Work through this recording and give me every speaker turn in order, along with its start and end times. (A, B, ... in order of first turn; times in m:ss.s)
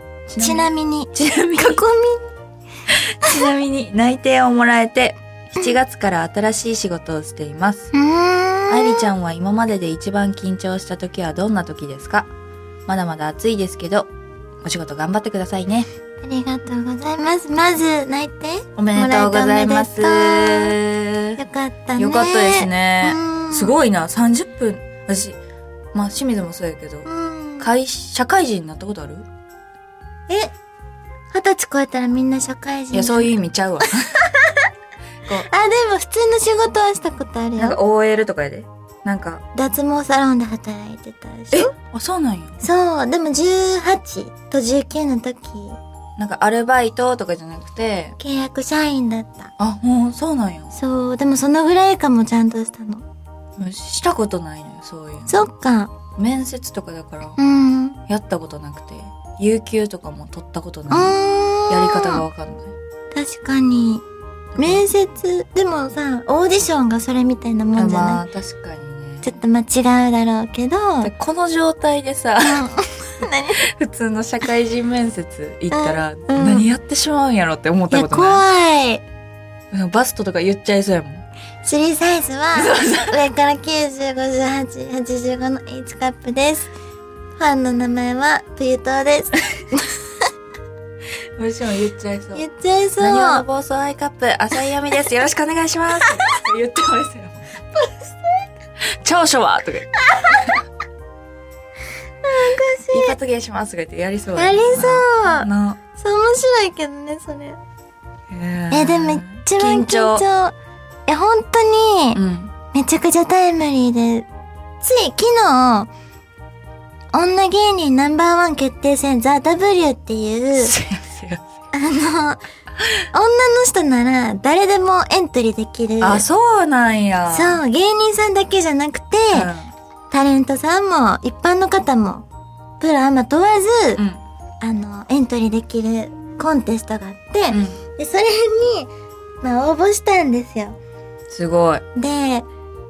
0:00.3-0:01.8 A
0:00.4-0:02.3 B
0:03.2-0:07.9 A
0:07.9-0:09.1 B
0:08.7-0:12.3 A
0:12.9-0:14.1 A
0:14.6-0:15.9 A
0:16.2-0:20.7 B
0:18.8-0:21.4 A
0:21.4-0:23.7 B
0:22.0-0:25.4 A
0:25.9-0:27.0 A
0:27.0-0:27.7 B
0:27.6-0:29.2 A
0:31.3-0:33.4 B
0:32.9-0:34.2 A
0:34.2-0:34.7 B
0:35.4-0:37.8 B
0:37.6-0:39.4 A
0:39.5-0:41.7 B
0:41.5-0:42.6 A
0:42.6-0:45.8 B
0:46.2-0:48.2 A
0:48.2-0:49.5 B
0:49.6-0:50.7 A
0:50.7-0:53.0 B
0:53.6-0:55.5 A
0:55.3-0:55.9 B
0:56.2-0:57.4 A
0:57.4-0:58.0 B
0:58.1-1:01.2 A
1:00.9-1:02.2 B
1:01.7-1:02.7 A
1:03.1-1:04.0 B
1:04.6-1:04.8 A
1:04.6-1:08.2 B
1:07.7-1:09.3 A
1:09.2-1:11.1 B
1:11.0-1:12.6 A
1:12.4-1:13.6 B
1:13.6-1:18.4 A
1:15.7-1:16.7 B
1:17.9-1:19.0 B
1:19.7-1:21.2 A
1:21.6-1:26.7 B
1:22.5-1:23.2 A
1:27.4-1:30.3 B
1:31.4-1:32.4 A
1:32.4-1:33.4 B
1:33.0-1:37.5 A
1:37.7-1:38.4 B
1:38.8-1:40.6 A
1:40.0-1:40.4 B
1:42.2-1:43.2 B
1:42.9-1:45.8 A
1:44.4-1:47.6 B
1:48.3-1:50.2 A
1:48.7-1:50.5 B
1:51.1-1:52.2 B
1:52.1-1:52.5 A
1:52.7-1:54.3 B
1:54.8-1:55.9 B
1:57.1-2:00.7 B
2:00.6-2:01.4 A
2:01.7-2:02.4 B
2:03.1-2:06.2 B
2:06.0-2:07.6 A
2:07.3-2:09.5 B
2:09.3-2:09.7 A
2:10.1-2:12.2 B
2:12.8-2:14.0 B
2:14.6-2:18.9 B
2:17.5-2:17.8 A
2:19.4-2:20.8 B
2:21.3-2:21.8 A
2:22.0-2:22.5 B